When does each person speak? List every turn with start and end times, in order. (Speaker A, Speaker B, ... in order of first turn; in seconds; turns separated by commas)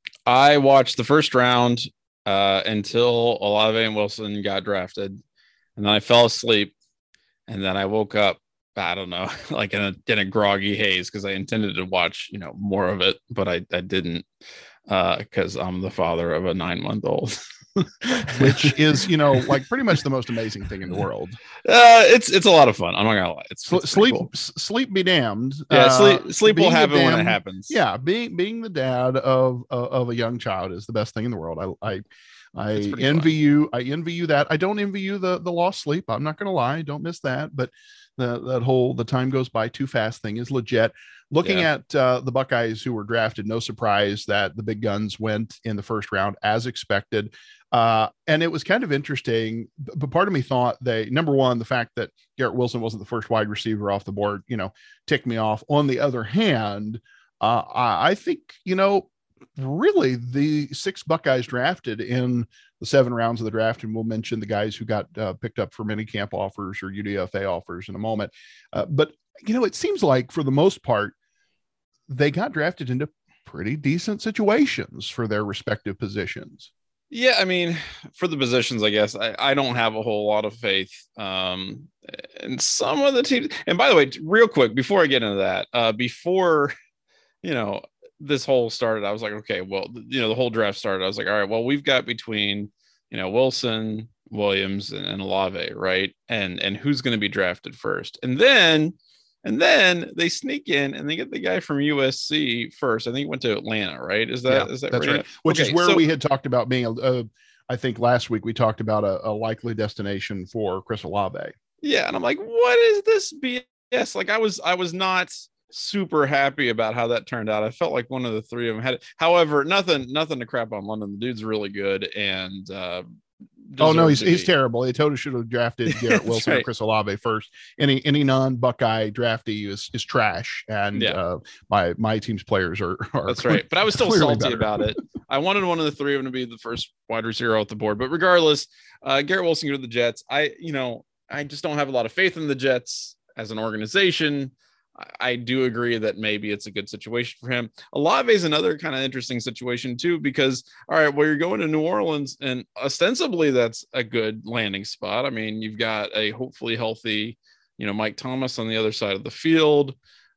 Speaker A: 0.3-5.2, Speaker A: 5.8-6.7, Speaker A: 7.5-14.3, Speaker A: 14.9-18.8, Speaker B: 18.3-21.4, Speaker A: 21.6-24.3, Speaker B: 23.7-71.2, Speaker A: 25.7-27.8, Speaker A: 32.8-33.4, Speaker B: 72.1-76.7, Speaker A: 77.1-86.7, Speaker A: 87.4-106.0, Speaker B: 104.5-111.5, Speaker A: 111.8-123.0, Speaker A: 123.7-124.5, Speaker B: 123.8-134.9, Speaker A: 125.9-126.7, Speaker A: 133.3-160.0